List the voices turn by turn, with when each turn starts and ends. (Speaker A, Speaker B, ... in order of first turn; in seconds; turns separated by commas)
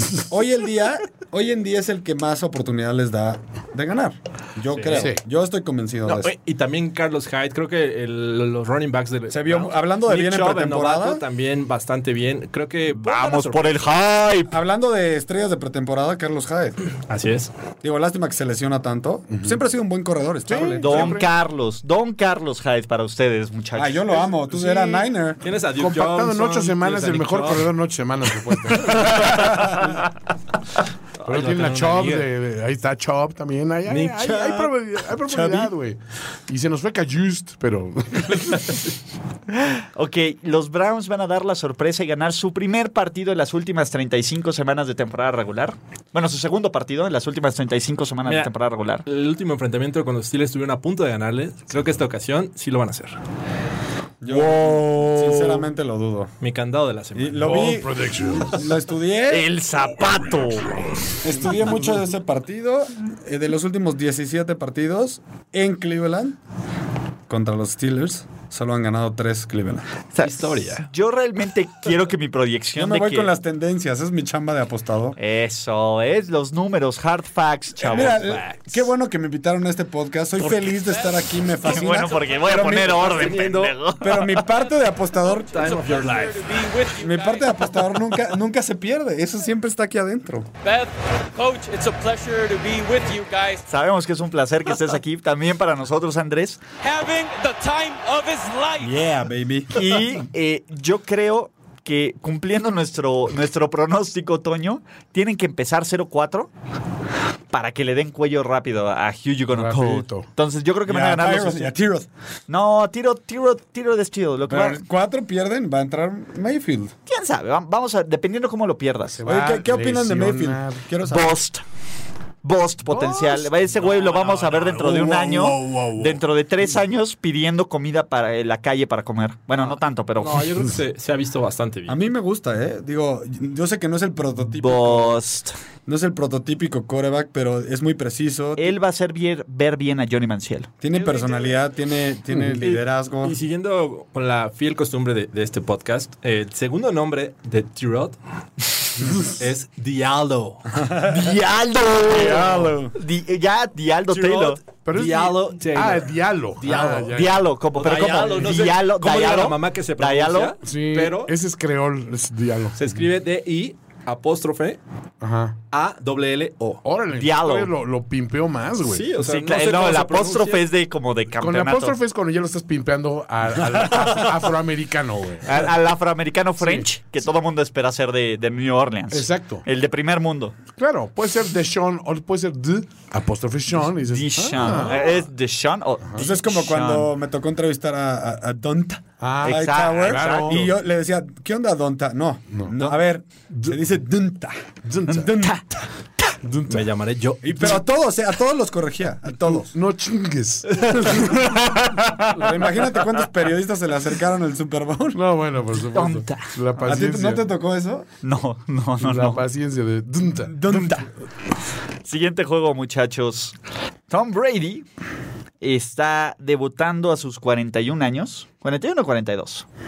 Speaker A: 0.3-6.3, Speaker B: 4.7-5.1, Speaker C: 4.9-5.2, Speaker B: 6.0-13.9, Speaker A: 9.3-11.2, Speaker D: 12.9-14.6, Speaker A: 14.5-16.8, Speaker B: 17.1-17.5, Speaker A: 17.8-21.2, Speaker C: 20.5-21.3, Speaker D: 20.8-24.3, Speaker A: 23.8-25.4, Speaker C: 24.5-24.9, Speaker B: 25.4-27.7, Speaker C: 25.7-30.0, Speaker B: 31.2-32.3, Speaker C: 31.2-38.8, Speaker B: 33.9-34.7, Speaker A: 35.3-35.7, Speaker D: 39.5-49.0, Speaker B: 48.2-48.5, Speaker B: 49.0-53.2, Speaker A: 54.2-56.3, Speaker B: 56.4-57.8, Speaker A: 57.1-59.5, Speaker C: 57.4-58.7, Speaker D: 59.3-60.9, Speaker C: 60.0-60.8, Speaker A: 61.2-66.4, Speaker A: 67.3-69.9, Speaker D: 70.1-73.3, Speaker B: 70.2-70.9, Speaker A: 72.7-75.2, Speaker D: 75.2-78.5, Speaker A: 77.8-83.5, Speaker D: 81.6-84.3, Speaker B: 83.0-83.8, Speaker A: 84.0-85.9, Speaker B: 85.5-86.5, Speaker E: 85.5-87.8, Speaker A: 87.0-90.5, Speaker E: 90.6-93.6, Speaker D: 93.7-96.6, Speaker E: 96.8-98.9, Speaker A: 98.8-99.8, Speaker D: 99.7-106.5, Speaker D: 107.5-111.7, Speaker C: 109.5-110.2, Speaker A: 110.8-112.1, Speaker D: 112.5-114.8, Speaker A: 114.5-116.9, Speaker D: 117.1-119.2, Speaker C: 119.2-120.8, Speaker A: 119.2-121.4, Speaker D: 121.0-121.6, Speaker D: 122.4-130.5, Speaker C: 122.9-123.4, Speaker B: 123.7-124.9, Speaker C: 124.8-126.2, Speaker B: 129.6-132.0, Speaker A: 131.9-135.2, Speaker D: 134.6-135.5, Speaker A: 135.9-138.8, Speaker D: 138.6-140.7, Speaker A: 140.8-143.4, Speaker B: 142.6-148.2, Speaker B: 149.0-150.7, Speaker A: 150.7-151.3, Speaker D: 151.0-154.6, Speaker A: 152.1-152.9, Speaker B: 154.1-157.1, Speaker C: 154.8-157.4, Speaker D: 156.7-160.5, Speaker B: 157.7-161.3, Speaker C: 160.6-162.9, Speaker B: 162.7-164.8, Speaker C: 165.2-165.6, Speaker B: 165.7-166.8, Speaker C: 166.8-169.1, Speaker D: 167.1-167.7, Speaker B: 168.9-170.7, Speaker D: 169.2-171.9, Speaker C: 171.4-175.6, Speaker D: 174.0-174.4, Speaker D: 175.4-180.6, Speaker C: 176.6-176.9, Speaker C: 179.1-179.6, Speaker C: 180.8-185.2, Speaker D: 183.9-187.1, Speaker A: 186.2-194.6, Speaker C: 189.2-190.7, Speaker D: 189.4-190.6, Speaker C: 194.9-195.3, Speaker A: 195.1-195.6, Speaker D: 195.2-196.3, Speaker C: 196.4-196.8, Speaker B: 196.7-197.8, Speaker A: 197.4-199.7, Speaker C: 199.5-201.6, Speaker A: 201.2-205.2, Speaker C: 205.1-207.4, Speaker D: 205.9-206.5, Speaker A: 206.8-208.1, Speaker D: 208.2-209.4, Speaker C: 209.0-210.5, Speaker A: 210.5-211.1, Speaker D: 210.6-211.0, Speaker D: 212.1-213.6, Speaker D: 214.1-214.9, Speaker D: 215.6-219.6